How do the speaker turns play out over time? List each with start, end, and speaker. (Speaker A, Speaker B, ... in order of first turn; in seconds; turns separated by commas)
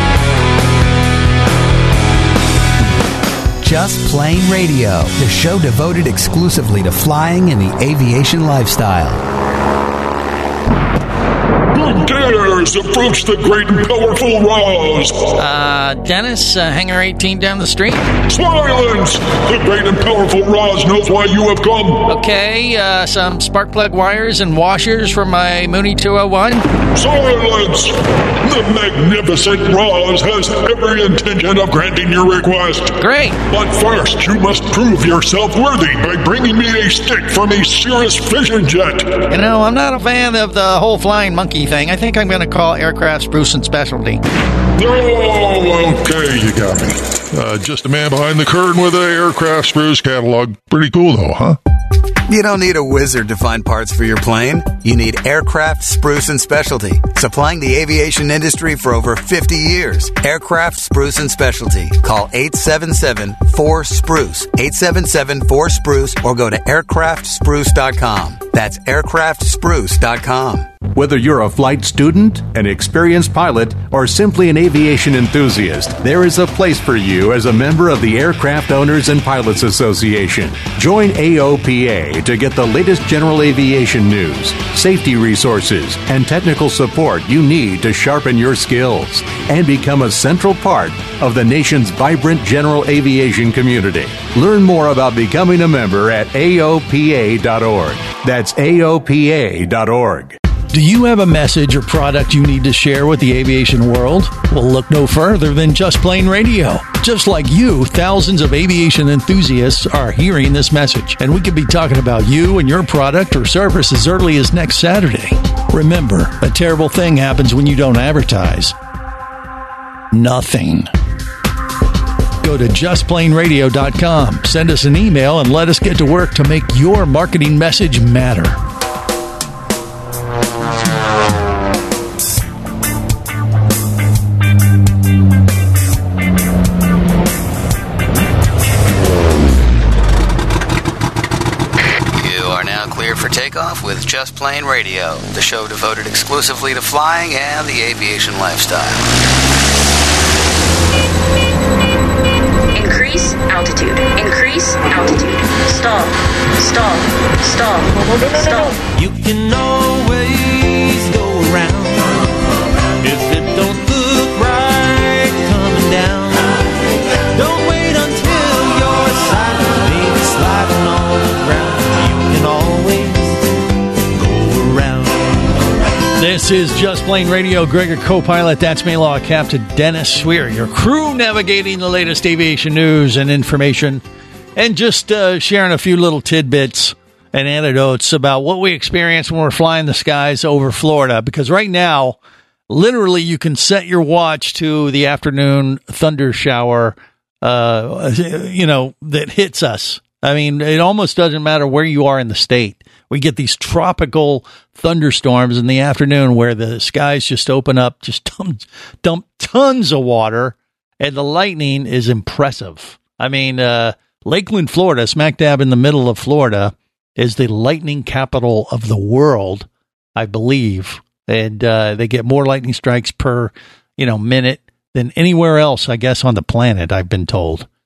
Speaker A: 3.6-9.2, Speaker B: 11.7-15.3, Speaker C: 15.3-18.1, Speaker B: 18.3-22.1, Speaker C: 22.1-26.7, Speaker B: 26.9-39.3, Speaker C: 33.0-33.4, Speaker C: 39.3-44.2, Speaker B: 44.8-51.6, Speaker A: 52.3-70.7, Speaker D: 70.9-100.4, Speaker C: 100.7-118.7, Speaker C: 120.1-120.9, Speaker C: 122.4-128.6, Speaker E: 142.1-149.0, Speaker F: 152.7-158.8, Speaker C: 158.9-162.0, Speaker C: 163.0-166.4, Speaker C: 167.3-173.2, Speaker C: 174.2-175.1, Speaker C: 176.2-184.0, Speaker C: 184.6-192.2, Speaker C: 192.7-227.7